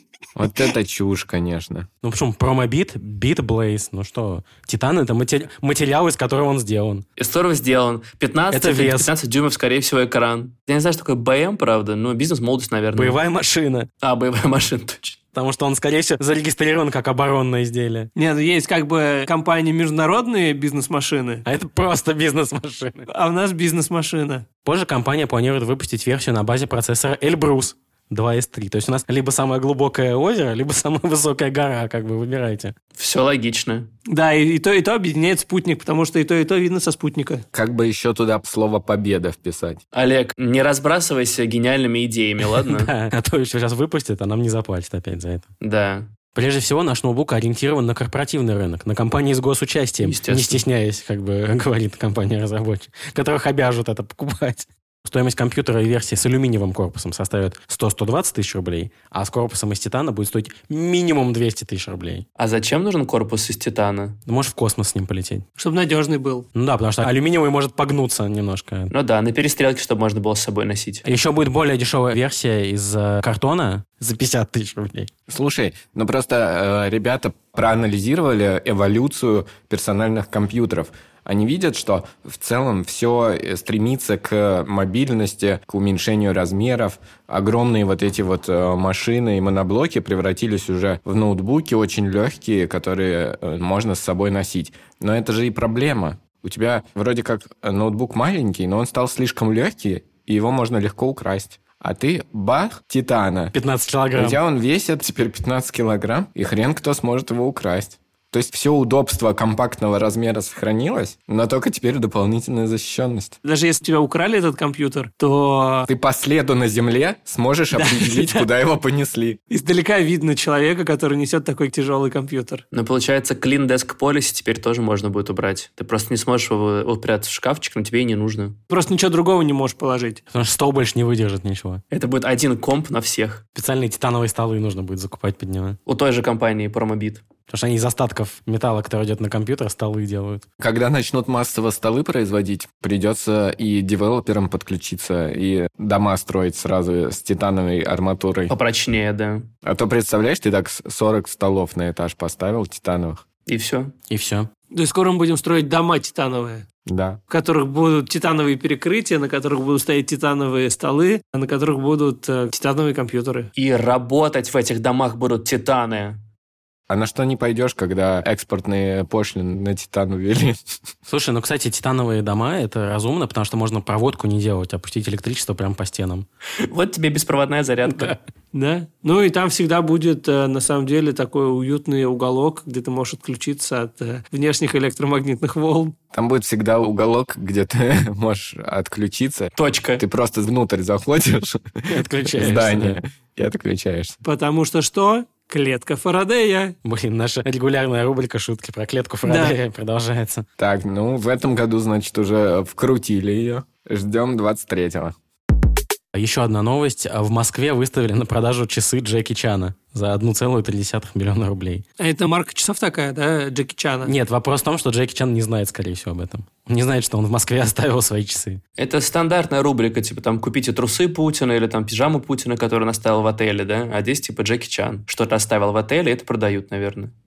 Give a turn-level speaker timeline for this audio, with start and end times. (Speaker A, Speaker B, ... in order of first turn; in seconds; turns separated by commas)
Speaker A: 0.3-1.9, Speaker B: 2.0-7.0, Speaker C: 7.2-13.2, Speaker B: 8.5-9.1, Speaker B: 12.9-13.9, Speaker C: 14.0-15.2, Speaker B: 15.3-18.1, Speaker D: 18.1-21.4, Speaker B: 21.4-23.1, Speaker D: 23.1-24.4, Speaker B: 24.6-32.7, Speaker C: 33.0-33.9, Speaker D: 34.1-37.4, Speaker A: 37.5-39.8, Speaker C: 39.9-42.9, Speaker B: 42.4-45.5, Speaker C: 45.6-46.1, Speaker B: 46.3-62.2, Speaker C: 50.0-50.6, Speaker C: 62.4-64.2, Speaker B: 64.2-65.4, Speaker D: 65.6-66.5, Speaker B: 66.5-68.9, Speaker C: 68.9-71.0, Speaker B: 71.0-75.1, Speaker A: 75.3-103.5, Speaker B: 103.5-104.4, Speaker A: 104.2-113.3, Speaker D: 113.4-115.9, Speaker A: 115.9-119.4, Speaker D: 117.7-118.4, Speaker D: 119.5-122.6, Speaker C: 122.7-128.6, Speaker D: 128.7-130.2, Speaker B: 130.3-131.8, Speaker C: 131.9-133.4, Speaker B: 133.5-135.8, Speaker C: 135.8-137.2, Speaker B: 137.5-140.4, Speaker A: 140.6-148.5, Speaker C: 148.5-149.5, Speaker A: 149.6-153.2, Speaker C: 153.5-153.9, Speaker B: 154.1-154.5, Speaker D: 154.7-156.6, Speaker A: 156.8-157.2, Speaker D: 157.3-163.5, Speaker C: 163.6-166.2, Speaker A: 166.9-170.6, Speaker B: 171.1-176.2, Speaker C: 176.6-178.2, Speaker D: 178.5-185.9, Speaker A: 186.1-194.2, Speaker C: 189.6-190.0, Speaker B: 191.9-193.0, Speaker D: 194.2-196.8, Speaker B: 196.8-200.4, Speaker D: 199.2-199.6, Speaker A: 200.6-205.1, Speaker B: 206.1-211.8, Speaker D: 212.0-214.1, Speaker B: 214.0-218.6, Speaker C: 218.8-227.1